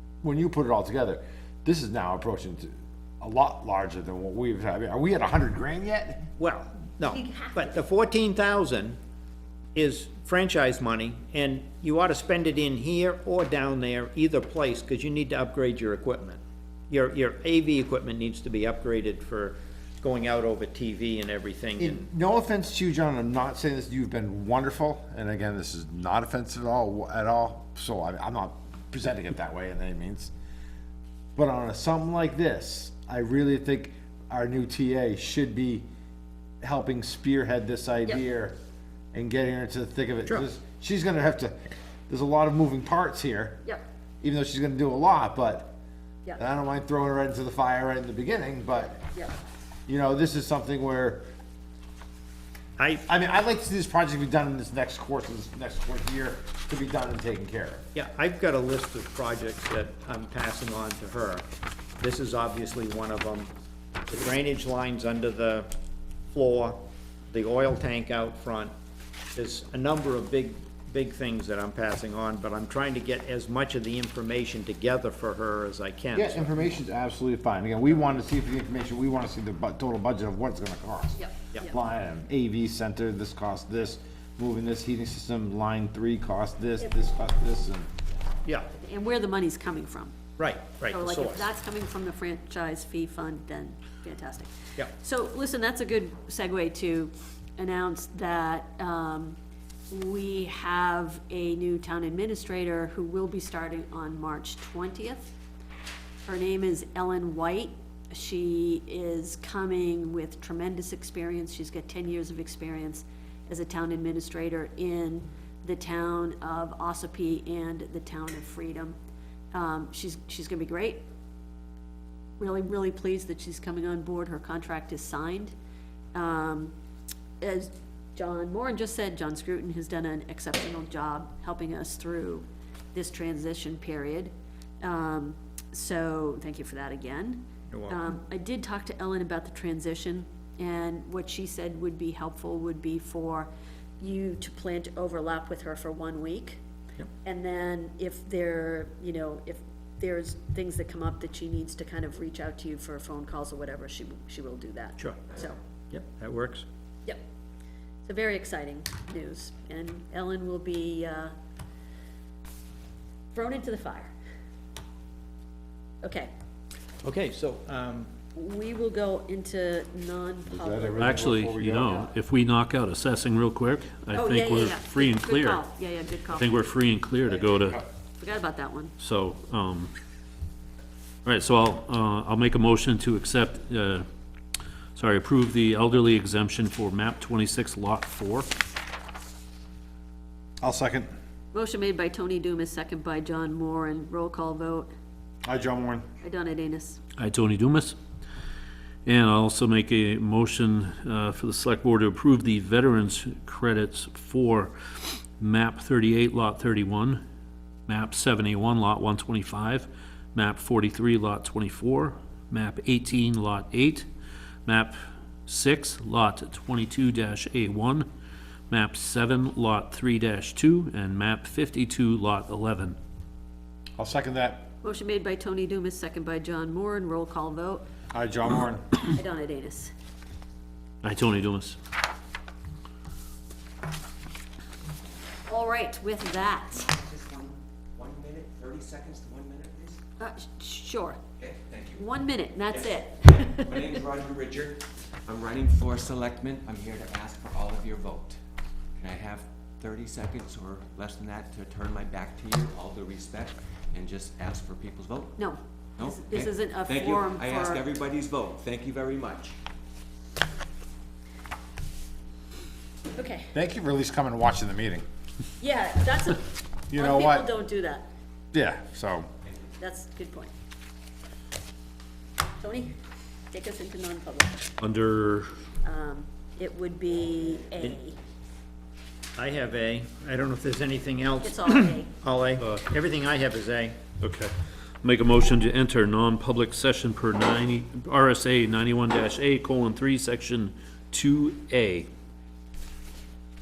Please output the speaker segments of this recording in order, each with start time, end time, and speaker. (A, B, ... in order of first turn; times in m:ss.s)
0:00.2-0:06.3 A
0:06.4-0:09.0 B
0:09.7-0:22.1 B
0:21.8-0:30.3 A
0:31.4-0:35.9 A
0:36.6-0:38.6 A
0:39.1-0:41.6 A
0:42.1-0:43.6 A
0:44.2-0:45.7 A
0:46.4-0:49.0 A
0:49.9-0:51.2 A
0:52.8-0:53.0 B
0:53.0-0:57.8 A
0:57.9-1:01.4 B
1:02.0-1:03.5 B
1:04.1-1:05.7 B
1:06.3-1:08.7 B
1:09.3-1:16.7 B
1:16.1-1:27.9 A
1:21.2-1:21.7 C
1:28.8-1:30.1 C
1:30.4-1:31.5 B
1:30.9-1:39.4 C
1:39.9-1:45.3 C
1:46.2-1:59.0 C
1:59.5-2:01.0 C
2:02.4-2:05.5 C
2:06.1-2:06.7 C
2:07.4-2:26.6 C
2:17.7-2:18.0 B
2:27.2-2:35.6 C
2:35.0-2:35.3 B
2:35.9-2:36.6 B
2:38.0-2:41.3 C
2:43.3-2:44.1 C
2:46.0-2:46.3 C
2:47.0-2:48.1 B
2:48.3-2:52.0 C
2:50.5-2:52.0 A
2:51.0-2:55.6 D
2:54.1-2:56.5 C
2:56.2-2:57.8 D
2:58.2-2:58.9 C
2:59.0-2:59.9 D
3:01.2-3:04.0 D
3:04.9-3:08.5 D
3:10.6-3:11.1 A
3:11.5-3:14.9 C
3:15.4-3:16.0 A
3:16.2-3:17.0 C
3:17.2-3:18.0 D
3:19.0-3:27.2 D
3:27.9-3:34.0 D
3:34.6-3:34.9 D
3:35.4-3:38.1 D
3:38.7-3:43.0 D
3:44.0-3:44.7 A
3:44.8-3:47.8 C
3:48.1-3:49.1 A
3:49.0-3:49.9 C
3:51.0-3:51.8 D
3:55.5-3:56.8 C
3:56.7-4:00.0 E
4:00.2-4:01.2 C
4:01.4-4:02.0 E
4:02.0-4:04.0 C
4:02.7-4:08.4 E
4:09.0-4:15.4 E
4:15.4-4:17.8 C
4:16.0-4:19.6 E
4:23.1-4:23.5 C
4:23.5-4:25.0 A
4:25.6-4:28.1 C
4:26.9-4:27.5 A
4:28.5-4:29.3 A
4:29.8-4:30.5 C
4:32.6-4:33.0 C
4:33.5-4:34.7 C
4:34.8-4:35.5 D
4:35.8-4:38.2 C
4:39.4-4:44.0 B
4:41.4-4:42.1 C
4:44.2-4:52.1 D